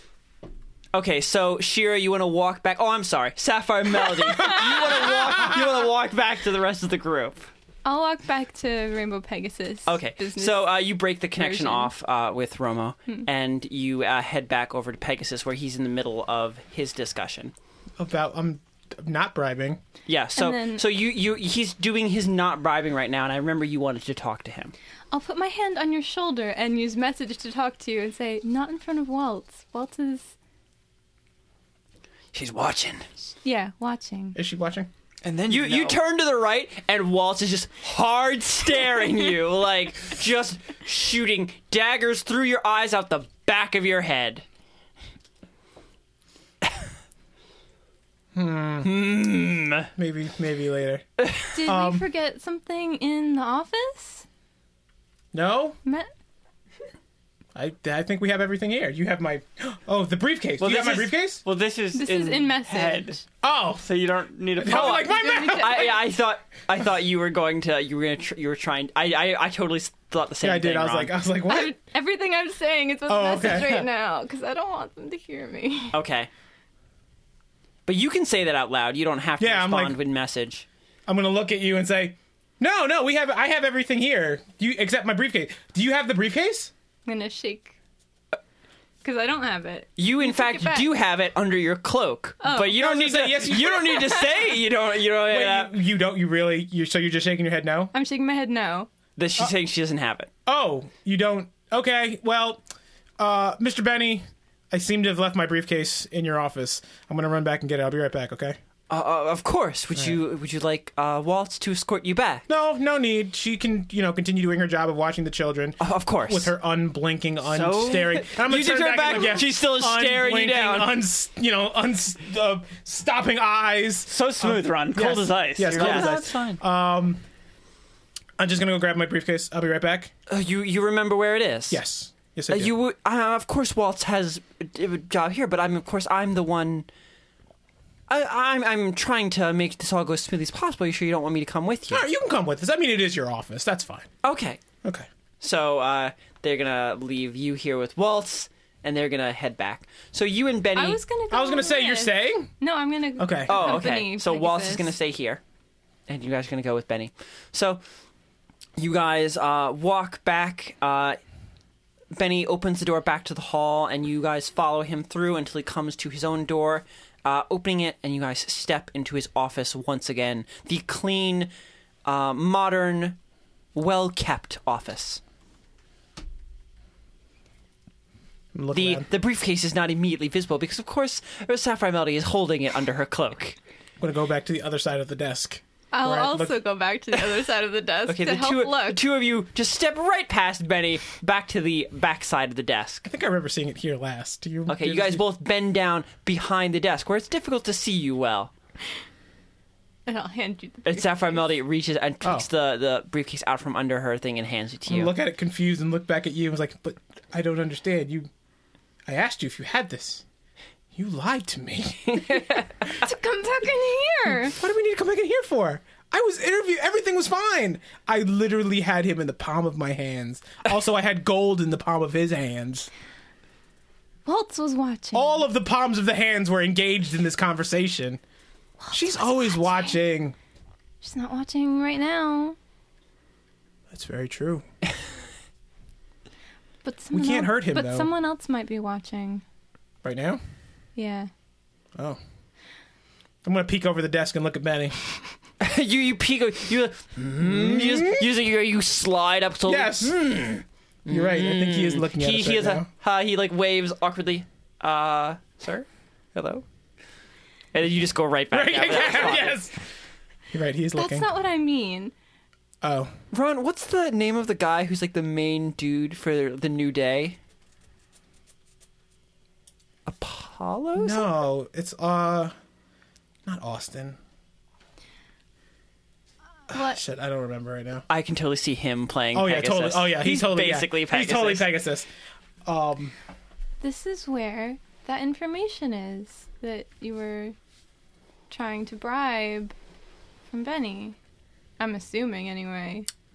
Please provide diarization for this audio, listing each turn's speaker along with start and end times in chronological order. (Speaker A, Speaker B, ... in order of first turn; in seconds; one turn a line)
Speaker A: 0.9-7.5
Speaker B: 7.8-10.7
Speaker A: 9.8-17.5
Speaker B: 11.3-11.9
Speaker C: 18.0-19.8
Speaker A: 20.1-24.7
Speaker B: 20.4-20.8
Speaker B: 25.1-30.3
Speaker A: 32.3-33.1
Speaker B: 33.4-34.4
Speaker C: 34.3-34.9
Speaker D: 35.2-36.0
Speaker A: 35.5-44.4
Speaker C: 48.3-49.0
Speaker A: 48.8-49.9
Speaker C: 50.0-51.1
Speaker B: 51.5-54.2
Speaker C: 51.6-52.1
Speaker C: 55.3-55.8
Speaker C: 57.5-61.4
Speaker D: 60.6-63.2
Speaker B: 61.9-63.2
Speaker C: 63.4-63.9
Speaker D: 63.8-65.1
Speaker C: 64.6-66.0
Speaker A: 64.7-71.1
Speaker B: 64.9-66.0
Speaker C: 70.4-71.7
Speaker B: 71.5-76.0
Speaker C: 73.1-73.8
Speaker A: 75.9-76.3
Speaker A: 77.8-80.7
Speaker C: 79.4-80.0
Speaker C: 81.1-86.7
Speaker B: 87.0-87.7
Speaker B: 89.0-90.9
Speaker A: 90.0-95.7
Speaker B: 92.4-92.8
Speaker C: 92.7-94.1
Speaker B: 93.7-94.3
Speaker C: 95.2-97.9
Speaker B: 97.9-98.9
Speaker A: 99.2-100.3
Speaker C: 100.5-102.6
Speaker C: 103.2-108.6
Speaker A: 108.9-112.4
Speaker C: 112.5-127.2
Speaker A: 115.8-116.5
Speaker A: 117.4-121.0
Speaker D: 124.1-126.3
Speaker A: 125.7-126.6
Speaker C: 128.4-130.1
Speaker A: 130.3-131.8
Speaker C: 131.7-132.7
Speaker A: 132.5-136.9
Speaker A: 138.1-142.1
Speaker C: 141.9-144.1
Speaker A: 144.2-144.6
Speaker A: 145.4-151.0
Speaker B: 150.7-154.9
Speaker C: 151.3-152.5
Speaker C: 153.2-153.9
Speaker A: 153.5-155.4
Speaker A: 156.1-157.8
Speaker A: 158.8-161.2
Speaker A: 162.1-171.5
Speaker A: 172.0-173.2
Speaker A: 173.7-175.2
Speaker C: 178.5-179.1
Speaker A: 178.7-183.6
Speaker C: 184.0-186.6
Speaker B: 185.9-189.0
Speaker A: 188.1-193.1
Speaker C: 193.1-195.2
Speaker A: 194.7-198.5
Speaker B: 200.1-201.4
Speaker A: 200.8-205.2
Speaker C: 204.9-208.3
Speaker C: 209.1-210.2
Speaker C: 210.9-212.6
Speaker B: 212.9-214.6
Speaker C: 214.4-222.9
Speaker B: 224.2-225.4
Speaker C: 225.1-228.2
Speaker B: 228.8-230.0
Speaker C: 228.9-230.3
Speaker B: 231.0-232.6
Speaker C: 233.9-234.6
Speaker B: 236.8-239.4
Speaker C: 237.1-238.1
Speaker C: 240.0-240.4
Speaker B: 240.9-241.3
Speaker C: 243.4-245.0
Speaker A: 245.6-256.6
Speaker C: 247.4-248.2
Speaker C: 249.7-250.2
Speaker C: 251.1-252.9
Speaker A: 257.7-259.6
Speaker C: 258.5-259.8
Speaker C: 260.5-261.3
Speaker B: 260.9-262.1
Speaker C: 262.8-263.1
Speaker A: 263.3-267.4
Speaker A: 270.1-271.3
Speaker C: 271.0-272.5
Speaker C: 273.4-274.2
Speaker B: 276.7-277.0
Speaker C: 276.7-278.0
Speaker A: 278.1-281.7
Speaker C: 279.3-282.1
Speaker C: 282.6-283.1
Speaker B: 283.8-287.5
Speaker B: 288.5-289.7
Speaker B: 290.5-291.1
Speaker B: 291.8-293.1